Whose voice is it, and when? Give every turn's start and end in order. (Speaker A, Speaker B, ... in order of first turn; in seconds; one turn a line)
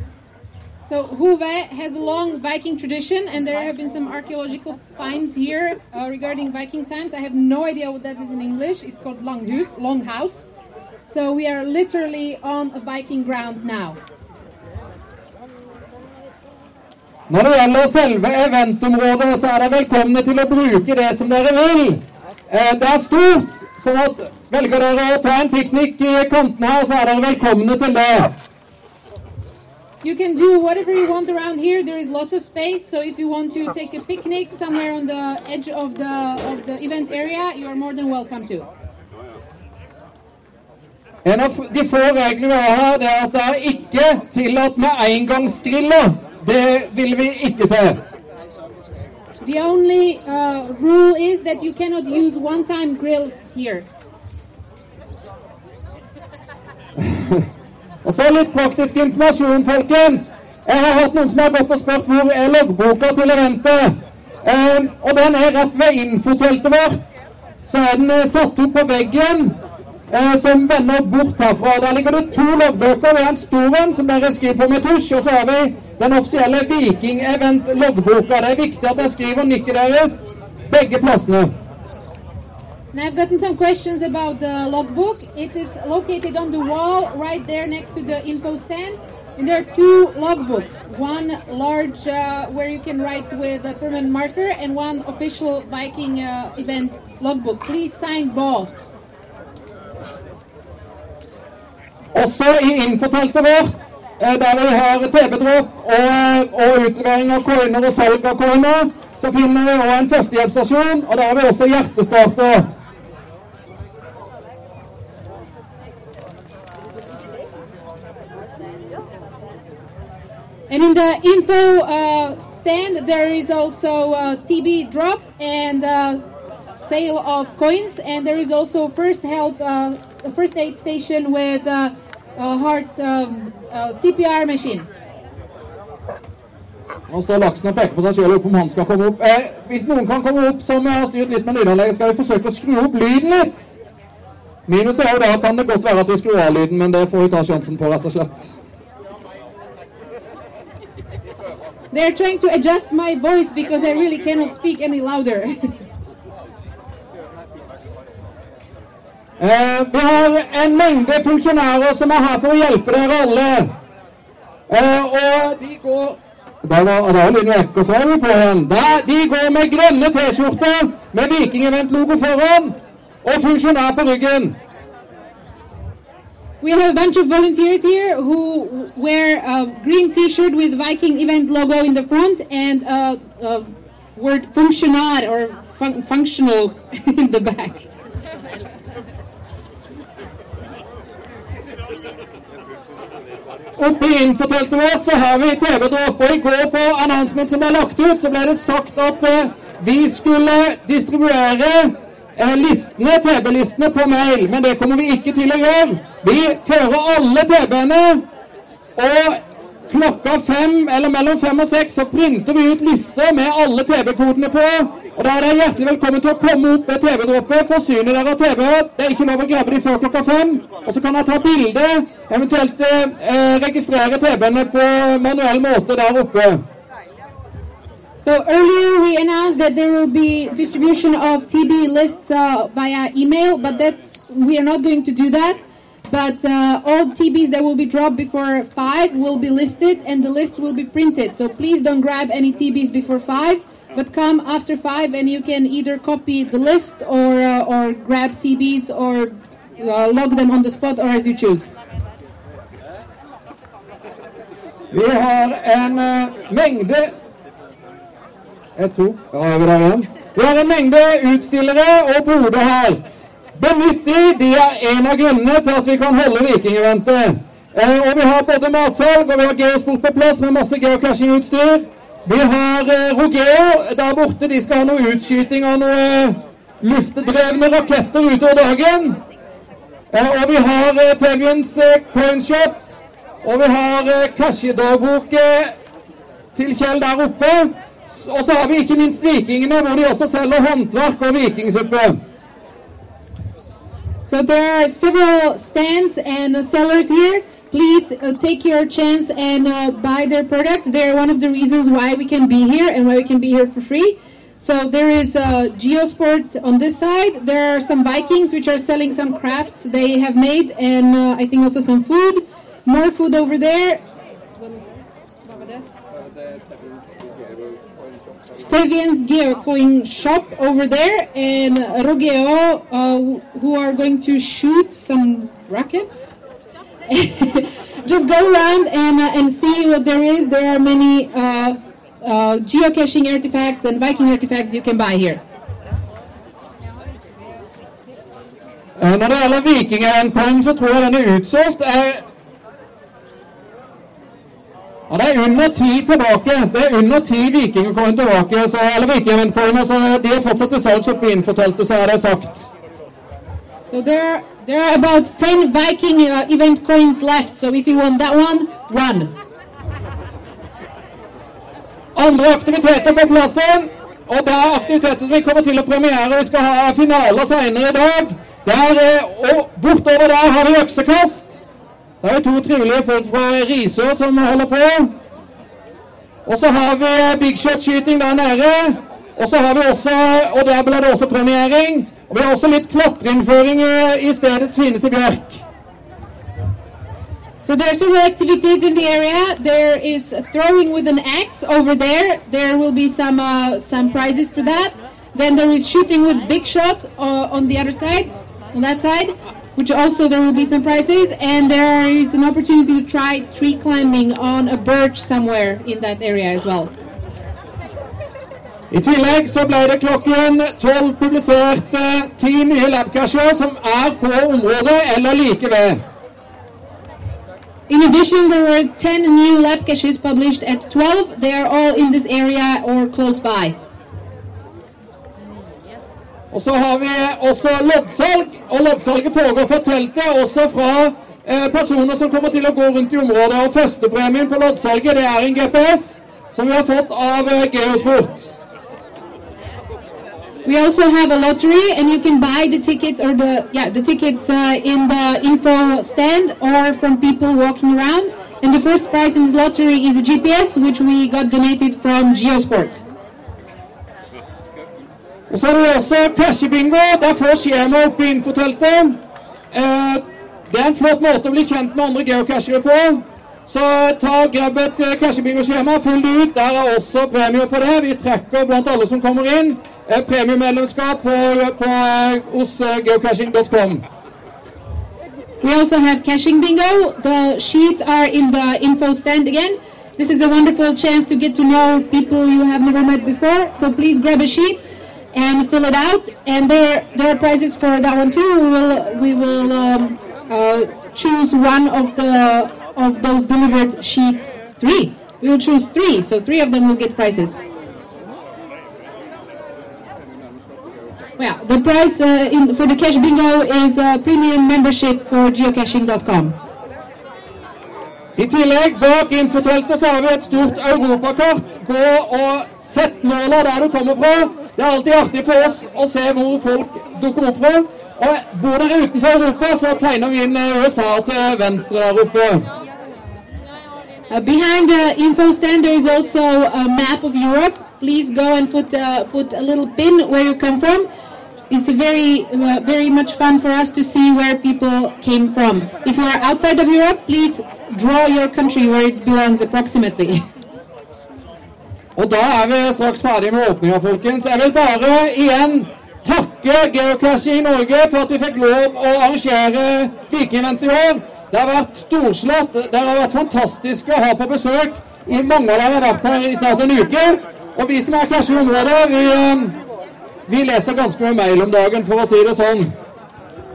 Speaker A: 0.9-10.4
Speaker A: 11.1-14.0
Speaker B: 17.3-28.4
Speaker A: 30.0-38.7
Speaker B: 41.3-48.0
Speaker A: 49.4-53.9
Speaker B: 58.0-67.1
Speaker B: 67.7-69.6
Speaker B: 70.1-81.5
Speaker A: 82.9-98.8
Speaker B: 102.1-112.7
Speaker A: 120.7-134.9
Speaker B: 137.1-143.7
Speaker B: 144.7-148.5
Speaker A: 151.9-155.8
Speaker B: 159.4-163.7
Speaker B: 164.7-174.6
Speaker A: 176.6-187.9
Speaker B: 193.8-208.2
Speaker B: 209.0-226.6
Speaker A: 228.2-251.7
Speaker B: 254.9-257.1
Speaker B: 258.8-279.2
Speaker B: 280.1-282.8
Speaker B: 283.4-285.7
Speaker B: 286.6-292.2
Speaker A: 294.3-314.0
Speaker A: 314.6-315.9
Speaker A: 318.7-326.3
Speaker A: 327.1-335.4
Speaker B: 339.0-342.2
Speaker B: 345.1-352.7
Speaker A: 353.9-359.3
Speaker B: 362.1-371.6
Speaker B: 372.2-375.1
Speaker B: 376.5-385.6
Speaker A: 387.6-406.9
Speaker B: 408.9-416.0
Speaker A: 417.9-423.8
Speaker B: 426.5-438.5
Speaker A: 440.6-453.0
Speaker B: 455.5-474.0
Speaker A: 475.6-497.6
Speaker A: 501.4-506.6
Speaker B: 508.4-522.7
Speaker A: 524.3-531.1
Speaker A: 531.7-540.5
Speaker B: 542.2-559.8
Speaker B: 560.5-563.0